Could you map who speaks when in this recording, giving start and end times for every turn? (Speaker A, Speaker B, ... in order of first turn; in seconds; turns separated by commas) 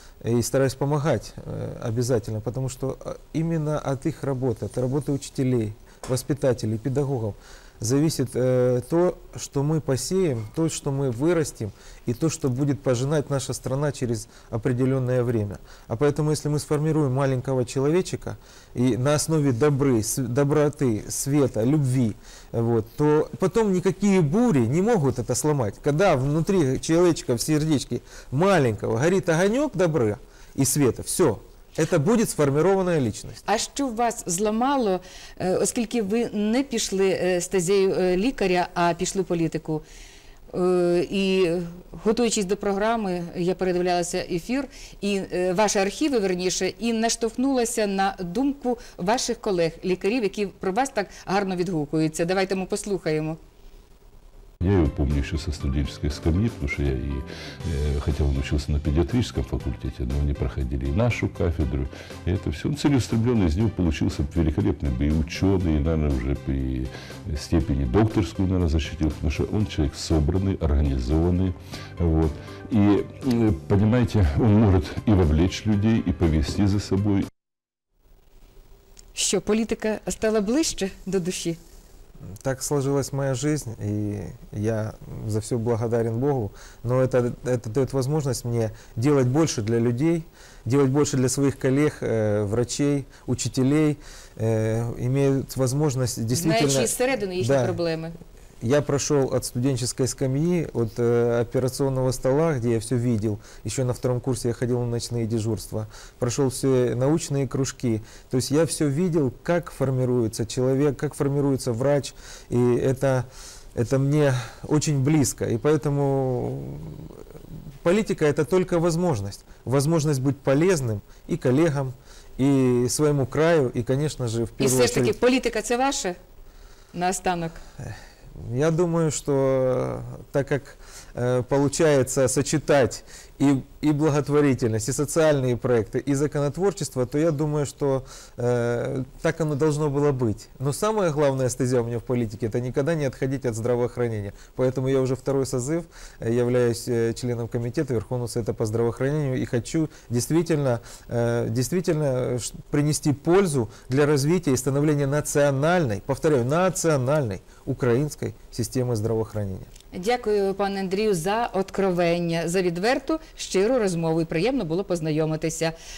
Speaker A: 0.2-33.4, Speaker B: 33.5-39.8, Speaker B: 40.5-53.4, Speaker C: 54.6-77.3, Speaker B: 79.2-81.6, Speaker A: 82.4-97.8, Speaker B: 96.3-98.2, Speaker A: 98.6-117.2, Speaker A: 117.8-125.2, Speaker B: 124.6-126.2, Speaker B: 126.9-127.6, Speaker A: 127.8-159.7, Speaker B: 159.9-165.8